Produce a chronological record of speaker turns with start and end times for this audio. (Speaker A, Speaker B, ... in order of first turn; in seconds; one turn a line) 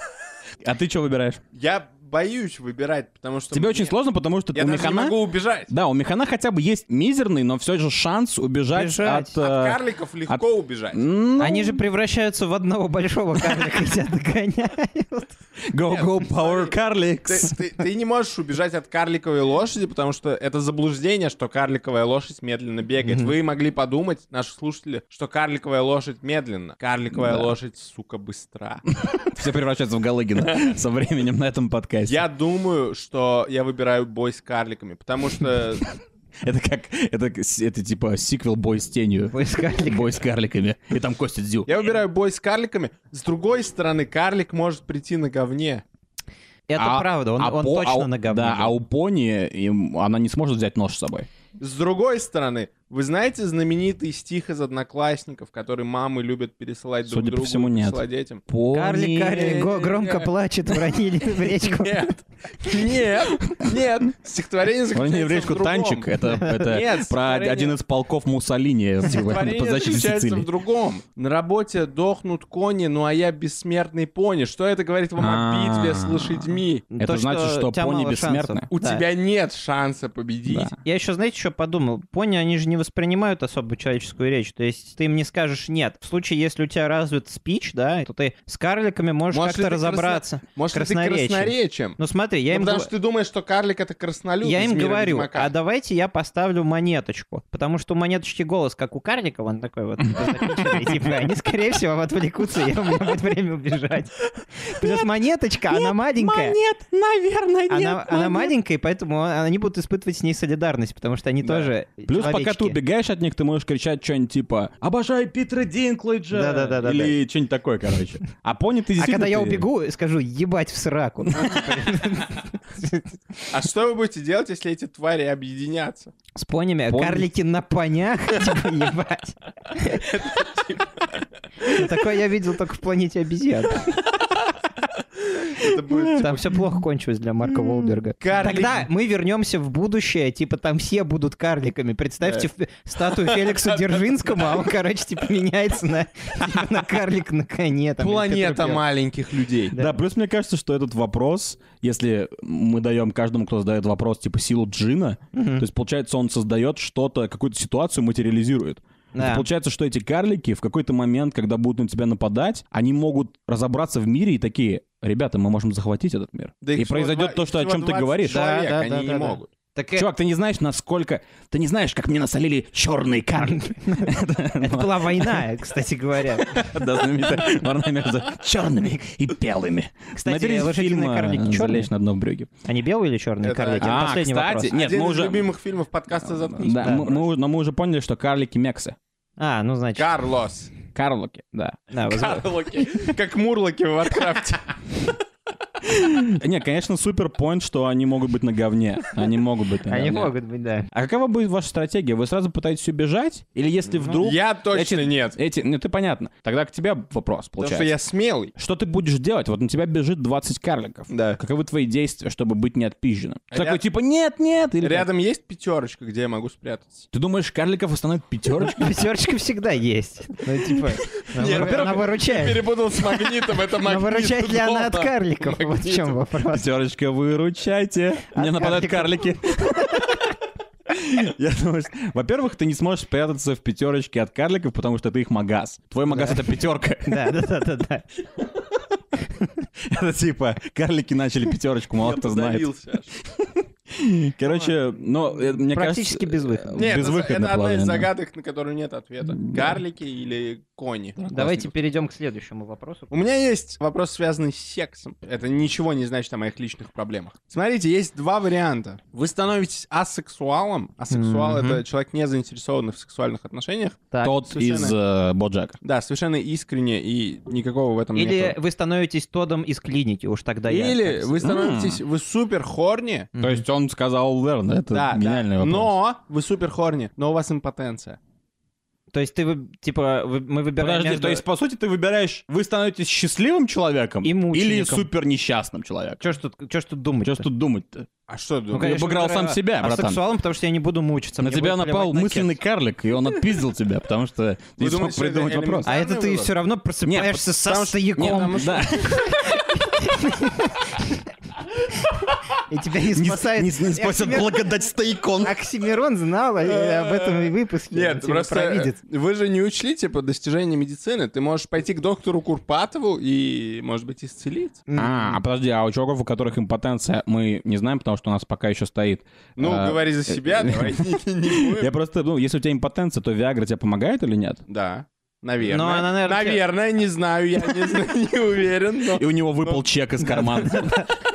Speaker A: 0.6-1.4
Speaker B: 1.5-3.9
Speaker A: 3.5-5.2
Speaker B: 4.5-5.7
Speaker A: 5.7-11.8
Speaker C: 8.7-9.4
Speaker B: 9.4-11.0
Speaker C: 11.4-15.3
Speaker A: 15.7-17.5
Speaker B: 15.9-28.8
Speaker C: 23.0-23.3
Speaker A: 27.1-27.5
Speaker A: 29.2-32.2
Speaker B: 30.4-30.7
Speaker B: 32.0-35.9
Speaker A: 36.4-41.7
Speaker C: 39.3-40.2
Speaker B: 41.6-45.8
Speaker C: 46.7-48.7
Speaker A: 46.8-51.3
Speaker B: 51.6-58.4
Speaker A: 57.0-59.5
Speaker C: 58.7-62.1
Speaker B: 59.3-60.3
Speaker B: 61.4-67.8
Speaker A: 64.9-70.5
Speaker B: 69.0-76.8
Speaker A: 75.2-78.7
Speaker C: 76.9-79.0
Speaker B: 78.7-80.7
Speaker C: 80.8-92.9
Speaker B: 89.3-92.0
Speaker B: 92.5-95.5
Speaker C: 94.4-106.6
Speaker A: 104.8-105.1
Speaker A: 105.7-108.5
Speaker C: 107.7-112.8
Speaker A: 112.1-119.6
Speaker C: 116.3-117.2
Speaker C: 119.0-123.2
Speaker A: 121.3-121.7
Speaker B: 123.5-126.1
Speaker C: 126.4-130.0
Speaker A: 126.9-127.3
Speaker B: 129.8-131.2
Speaker C: 131.6-134.0
Speaker B: 135.5-136.5
Speaker C: 136.1-148.8
Speaker B: 138.2-138.9
Speaker B: 143.1-143.9
Speaker B: 148.0-149.8
Speaker A: 149.7-168.4
Speaker C: 155.3-155.6
Speaker C: 159.1-159.5
Speaker B: 166.6-169.5
Speaker C: 168.3-170.1
Speaker A: 170.0-175.5
Speaker C: 173.4-176.7
Speaker A: 176.4-182.5
Speaker C: 180.1-181.9
Speaker C: 182.6-184.7
Speaker B: 183.4-184.1
Speaker A: 183.8-185.5
Speaker B: 184.7-187.3
Speaker A: 186.2-189.0
Speaker C: 189.4-190.1
Speaker B: 190.0-190.7
Speaker A: 190.9-191.9
Speaker C: 191.9-193.1
Speaker B: 192.1-195.1
Speaker A: 195.8-200.3
Speaker C: 199.9-200.9
Speaker A: 200.9-207.9
Speaker B: 204.2-205.4
Speaker B: 207.6-208.5
Speaker A: 208.6-215.1
Speaker B: 211.1-211.4
Speaker B: 213.5-213.8
Speaker B: 214.8-217.1
Speaker A: 217.1-219.0
Speaker C: 218.6-222.6
Speaker B: 221.3-226.2
Speaker A: 221.5-221.9
Speaker C: 223.8-226.7
Speaker A: 226.5-230.2
Speaker C: 228.3-230.1
Speaker A: 230.9-237.3
Speaker C: 236.1-236.5
Speaker C: 237.0-238.0
Speaker A: 239.8-242.7
Speaker B: 242.0-243.1
Speaker A: 243.2-248.1
Speaker C: 245.5-246.9
Speaker B: 246.7-251.3
Speaker A: 249.3-249.8
Speaker A: 251.2-251.7
Speaker C: 251.3-253.1
Speaker B: 253.1-264.9
Speaker C: 261.1-261.8
Speaker C: 264.1-264.4
Speaker A: 264.2-265.8
Speaker B: 265.8-268.6
Speaker C: 268.1-271.4
Speaker B: 270.7-273.3
Speaker A: 271.4-272.0
Speaker C: 273.4-273.6
Speaker A: 273.4-275.9
Speaker B: 274.9-278.2
Speaker C: 279.1-281.4
Speaker A: 280.8-286.2
Speaker C: 284.2-285.1
Speaker C: 286.2-287.5
Speaker A: 287.2-288.1
Speaker B: 288.3-288.9
Speaker A: 288.7-290.2
Speaker C: 288.7-292.5
Speaker A: 291.4-295.9
Speaker B: 294.8-296.5
Speaker C: 295.8-301.2
Speaker A: 297.0-299.5
Speaker B: 297.6-299.3
Speaker C: 302.7-304.7
Speaker A: 303.1-305.5
Speaker C: 305.4-309.0
Speaker B: 306.6-314.8
Speaker C: 314.9-315.4
Speaker A: 315.0-324.6
Speaker B: 319.6-321.9
Speaker B: 324.7-329.8
Speaker C: 325.6-326.6
Speaker A: 329.1-331.1
Speaker C: 330.2-331.1